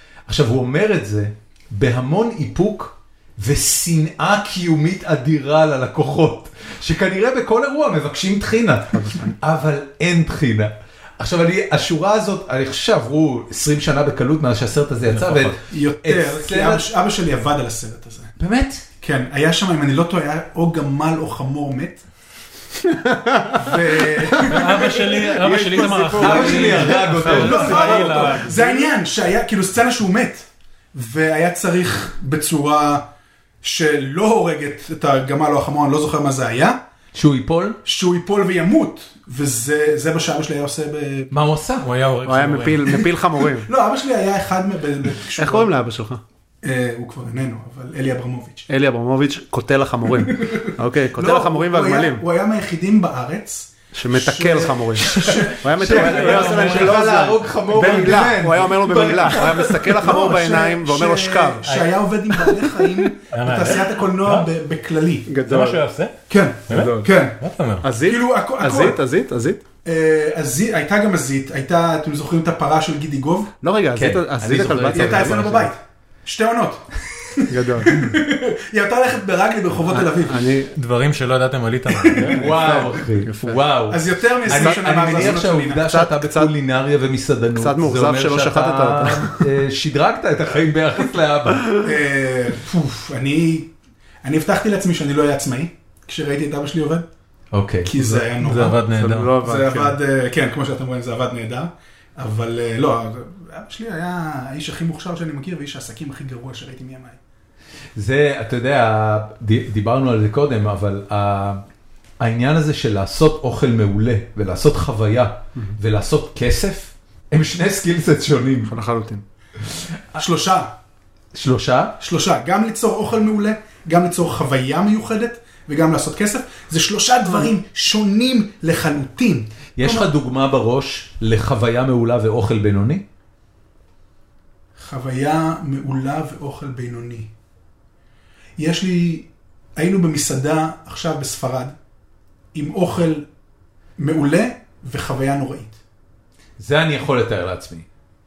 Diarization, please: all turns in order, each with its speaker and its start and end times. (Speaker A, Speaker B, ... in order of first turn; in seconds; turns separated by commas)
Speaker A: 0.3-16.9, Speaker B: 8.9-9.3, Speaker C: 15.1-15.6, Speaker D: 15.7-18.3, Speaker A: 18.4-18.8, Speaker D: 19.0-22.0, Speaker B: 22.8-28.7, Speaker D: 23.5-33.0, Speaker C: 24.4-28.8, Speaker A: 26.1-28.0, Speaker D: 33.6-36.8, Speaker A: 37.1-37.8, Speaker D: 37.8-41.3, Speaker A: 41.3-41.9, Speaker C: 41.8-43.0, Speaker B: 42.2-43.7, Speaker D: 43.5-45.7, Speaker B: 45.4-46.2, Speaker D: 46.6-48.6, Speaker B: 48.7-52.2, Speaker D: 50.2-57.0, Speaker B: 53.9-61.7, Speaker A: 55.1-60.0, Speaker D: 57.9-58.2, Speaker D: 59.4-65.3, Speaker C: 61.6-61.9, Speaker B: 62.5-62.9, Speaker C: 63.3-64.5, Speaker B: 65.3-65.8, Speaker C: 65.4-66.1, Speaker D: 66.3-67.4, Speaker C: 66.7-67.9, Speaker B: 66.7-67.1, Speaker B: 67.8-69.6, Speaker D: 68.0-69.0, Speaker D: 69.8-73.5, Speaker B: 73.6-75.7, Speaker A: 74.0-75.5, Speaker D: 74.8-80.5, Speaker B: 77.5-78.1, Speaker B: 79.9-80.7, Speaker C: 80.7-82.6, Speaker D: 82.1-82.8, Speaker B: 82.3-83.6, Speaker A: 82.3-91.7, Speaker D: 83.9-85.9, Speaker B: 84.5-86.5, Speaker B: 87.5-89.5, Speaker D: 91.8-93.7, Speaker D: 94.2-97.0, Speaker A: 97.5-97.9, Speaker D: 97.8-98.8, Speaker B: 98.0-100.0, Speaker C: 98.4-99.3, Speaker D: 99.4-107.2, Speaker A: 108.0-111.6, Speaker A: 112.2-118.7, Speaker B: 118.7-119.2, Speaker D: 120.2-120.7, Speaker A: 121.3-122.0, Speaker D: 122.0-130.1, Speaker A: 129.8-133.0, Speaker D: 134.8-137.3, Speaker D: 138.6-141.7, Speaker D: 142.5-143.2, Speaker D: 144.0-145.8, Speaker A: 146.6-147.8